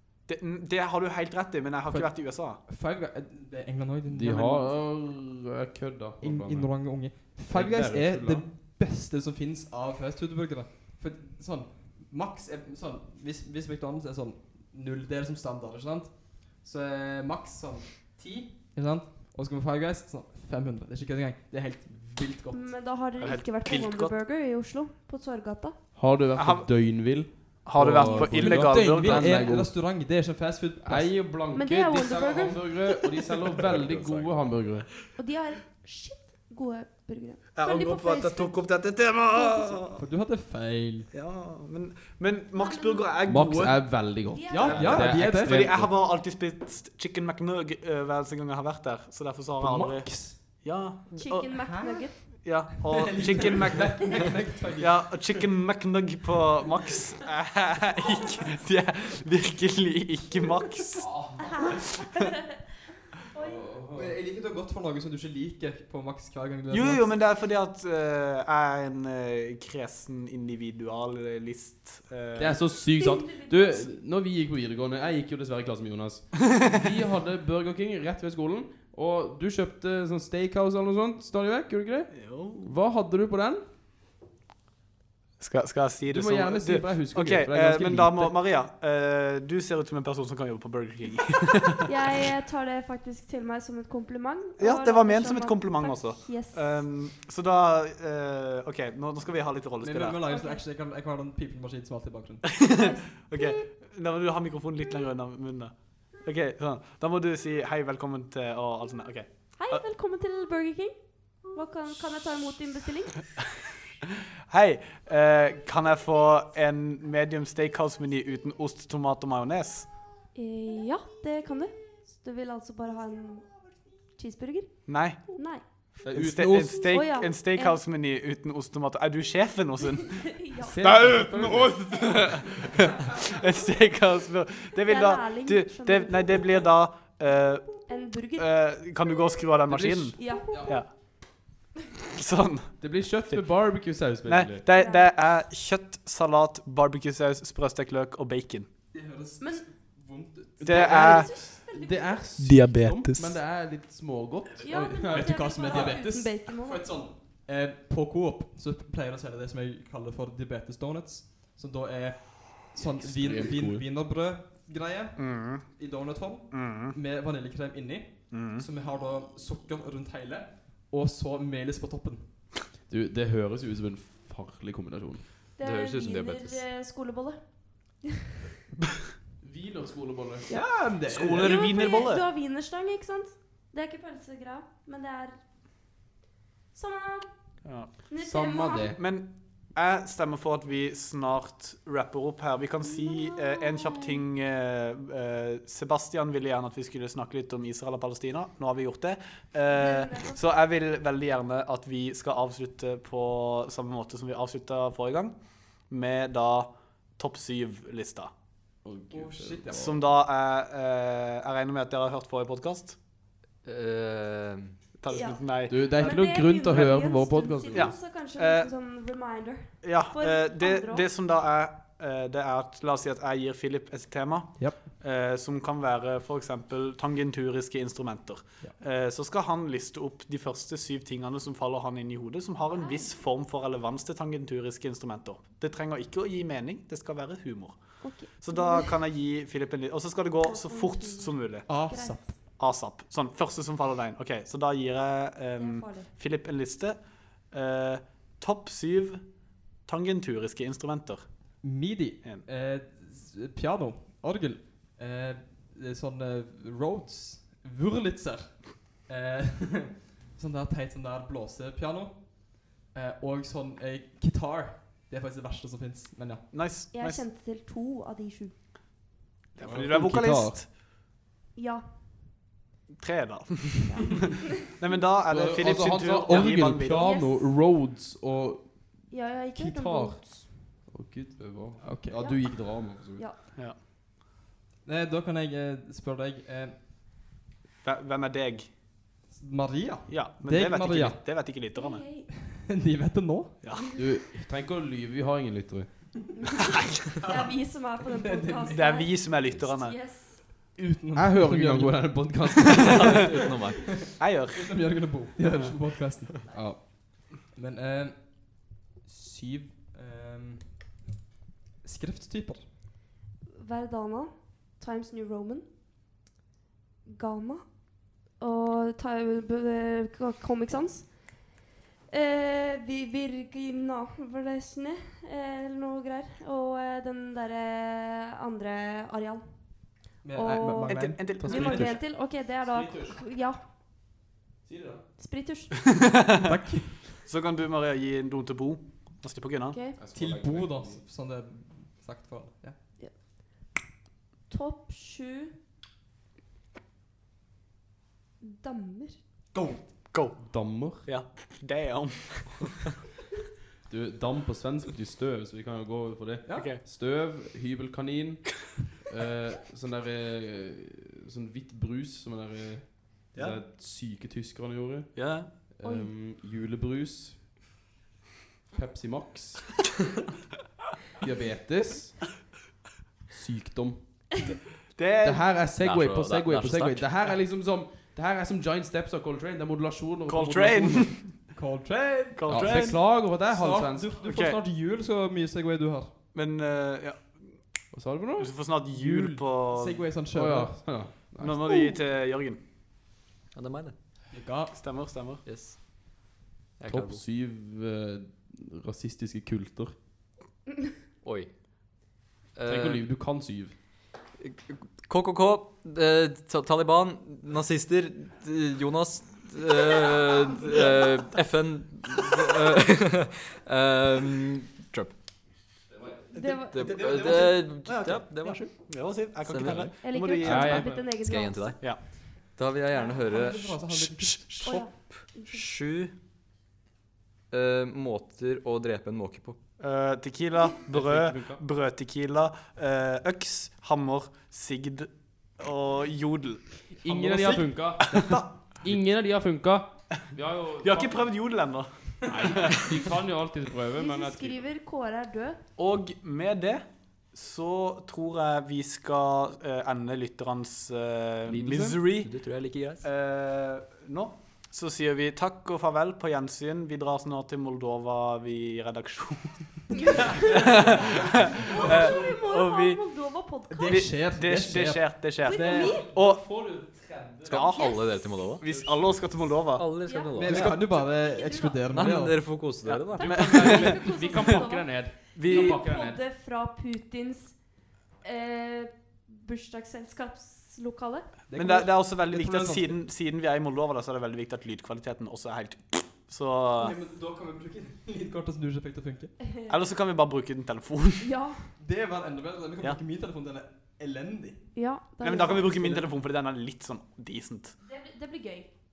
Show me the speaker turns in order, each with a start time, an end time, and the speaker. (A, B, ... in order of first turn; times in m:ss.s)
0:00.2-0:02.6 A
0:01.8-0:04.7 B
0:04.1-0:08.5 C
0:06.2-0:22.8 B
0:22.5-0:25.8 D
0:23.2-0:24.1 A
0:26.0-0:29.8 C
0:26.4-0:29.5 A
0:27.9-0:31.3 B
0:30.8-0:34.9 C
0:31.5-0:32.9 D
0:33.7-0:34.3 E
0:35.2-0:38.7 D
0:37.5-0:40.0 A
0:39.3-0:39.8 D
0:40.0-0:41.1 B
0:41.1-0:44.1 A
0:42.5-0:43.1 D
0:43.2-0:46.0 C
0:44.3-0:44.9 D
0:44.5-0:45.8 B
0:44.6-0:51.5 A
0:49.6-0:50.4 C
0:51.2-0:52.2 D
0:51.6-0:55.4 B
0:52.3-1:02.1 A
1:01.0-1:01.6 C
1:01.4-1:02.6 D
1:03.3-1:03.6 D
1:03.4-1:04.2 C
1:03.9-1:07.1 B
1:06.7-1:12.6 A
1:12.4-1:23.6 C
1:12.9-1:13.9 D
1:22.1-1:22.7 A
1:25.4-1:31.9 A
1:26.1-1:28.3 C
1:31.8-1:36.8 D
1:34.6-1:40.2 A
1:39.8-1:42.4 B
1:40.2-1:40.6 D
1:42.5-1:49.8 A
1:42.7-1:43.6 D
1:49.6-1:53.2 D
1:54.5-1:59.9 A
2:00.3-2:05.6 D
2:04.8-2:20.9 A
2:06.0-2:06.9 C
2:06.8-2:07.8 D
2:10.4-2:10.8 D
2:10.6-2:12.1 C
2:14.8-2:16.5 D
2:17.9-2:18.5 D
2:19.7-2:20.2 C
2:20.2-2:21.0 D
2:20.5-2:20.8 B
2:22.1-2:23.4 A
2:22.8-2:24.6 C
2:24.2-2:28.7 A
2:24.6-2:25.1 D
2:28.9-2:31.1 B
2:29.4-2:29.7 D
2:30.6-2:35.9 C
2:30.6-2:31.3 A
2:30.7-2:32.3 D
2:32.4-2:33.4 A
2:34.6-2:52.5 B
2:34.6-2:36.8 D
2:42.7-2:43.8 C
2:45.2-2:45.8 A
2:46.5-2:46.9 A
2:48.3-2:48.6 A
2:52.9-2:55.2 C
2:55.6-2:58.1 D
2:55.6-2:56.6 E
2:59.4-3:00.5 C
3:00.5-3:01.6 B
3:01.1-3:02.2 A
3:01.4-3:05.4 D
3:06.7-3:07.3 D
3:07.6-3:07.9 A
3:07.9-3:08.9 D
3:08.2-3:09.0 C
3:08.9-3:28.3 A
3:12.8-3:14.2 D
3:19.7-3:20.4 D
3:28.8-3:30.0 C
3:29.1-3:30.0 B
3:29.8-3:33.0 A
3:33.6-3:34.8 E
3:35.0-3:36.2 A
3:35.1-3:41.1 D
3:35.7-3:38.0 C
3:37.7-3:38.7 A
3:39.8-4:01.7 A
3:44.6-3:44.9 B
3:52.7-3:53.1 D
3:58.0-3:58.9 D
4:00.4-4:02.3 D
4:01.7-4:02.4 B
4:02.6-4:09.3 A
4:05.6-4:06.1 D
4:09.8-4:11.5 A
4:11.6-4:26.5 B
4:26.5-4:27.2 A
4:26.9-4:28.5 D
4:29.5-4:30.6 A
4:29.6-4:30.6 C
4:31.5-4:31.9 D
4:33.0-4:37.2 A
4:33.8-4:34.3 D
4:35.3-4:43.2 C
4:36.7-4:37.5 D
4:39.1-4:40.4 D
4:41.8-4:42.2 B
4:42.1-4:43.4 D
4:44.8-4:46.9 B
4:47.8-4:48.7 A
4:49.3-4:51.4 B
4:50.1-4:52.2 A
4:51.7-4:52.3 D
4:52.3-4:53.6 B
4:53.6-4:54.0 A
4:53.9-4:56.1 C
4:56.4-5:00.4 D
4:57.2-4:59.0 B
4:58.7-5:00.1 A
5:00.7-5:02.4 B
5:01.1-5:03.3 C
5:02.7-5:03.1 A
5:02.7-5:03.9 E
5:03.8-5:06.3 B
5:04.2-5:05.7 A
5:06.5-5:06.8 C
5:07.0-5:10.8 B
5:11.8-5:12.7 B
5:13.5-5:15.6 D
5:17.0-5:21.6 D
5:22.1-5:33.6 D
5:30.2-5:31.9 B
5:30.9-5:32.0 A
5:32.7-5:33.2 C
5:34.6-5:35.0 C
5:35.2-5:35.7 D
5:36.0-5:36.5 A
5:36.4-5:37.2 B
5:37.2-5:39.8 A
5:39.7-5:40.0 D
5:40.0-5:41.0 C
5:40.1-5:43.0 B
5:44.5-5:45.5 D
5:48.4-5:49.2 D
5:49.5-5:50.0 B
5:50.1-5:52.9 A
5:50.4-5:51.1 C
5:53.9-6:07.4 C
5:56.4-5:56.7 B
5:56.5-5:56.8 A
6:03.3-6:03.6 A
6:05.1-6:05.5 A
6:05.8-6:06.1 D
6:08.7-6:09.7 C
6:11.2-6:12.3 C
6:13.3-6:14.4 C
6:14.9-6:15.5 A
6:15.2-6:21.2 C
6:15.8-6:17.2 E
6:20.3-6:21.4 A
6:21.5-6:26.1 B
6:22.3-6:23.0 A
6:22.5-6:24.2 C
6:24.2-6:24.6 A
6:26.3-6:27.6 A
6:27.9-6:29.4 C
6:28.4-6:30.1 A
6:29.6-6:30.9 B
6:30.3-6:31.7 C
6:31.4-6:32.6 A
6:31.6-6:32.0 D
6:33.5-6:34.0 E
6:34.3-6:34.8 B
6:34.7-6:35.4 A
6:35.4-6:35.8 E
6:36.8-6:37.2 E
6:36.9-6:40.0 C
6:41.2-6:43.0 E
6:42.6-6:43.8 C
6:44.4-6:55.1 E
6:56.3-6:57.5 A
6:56.3-6:56.9 D
6:56.7-6:59.9 E
6:56.8-6:58.8 B
6:58.8-7:00.9 A
6:59.6-6:59.9 C
7:00.0-7:01.8 D
7:00.4-7:01.1 C
7:00.4-7:06.1 E
7:03.1-7:04.5 B
7:04.6-7:05.6 D
7:07.5-7:09.6 E
7:09.8-7:16.7 A
7:10.9-7:11.6 C
7:16.9-7:18.6 B
7:17.0-7:21.3 C
7:20.8-7:23.1 A
7:22.3-7:24.6 C
7:24.0-7:25.6 D
7:25.8-7:32.3 A
7:31.5-7:33.0 E
7:33.0-7:43.0 A
7:39.9-7:41.0 D
7:40.2-7:40.5 B
7:41.6-7:44.1 D
7:41.7-7:42.1 B
7:43.7-7:46.1 B
7:43.9-7:46.4 A
7:45.4-7:46.1 D
7:45.9-7:47.7 C
7:47.4-7:48.6 E
7:47.5-7:51.0 A
7:47.6-7:48.6 D
7:48.6-7:49.3 C
7:49.7-7:50.8 E
7:50.0-7:51.8 D
7:50.4-7:52.5 B
7:51.9-7:53.5 E
7:52.8-7:54.6 A
7:53.2-8:01.3 D
7:53.2-7:56.2 C
7:55.3-7:55.8 A
8:01.5-8:03.0 B
8:01.5-8:07.0 A
8:06.8-8:09.3 B
8:09.7-8:11.3 A
8:11.2-8:11.7 D
8:11.8-8:14.8 B
8:14.7-8:15.7 D
8:15.2-8:17.7 A
8:15.6-8:16.1 B
8:17.8-8:18.7 D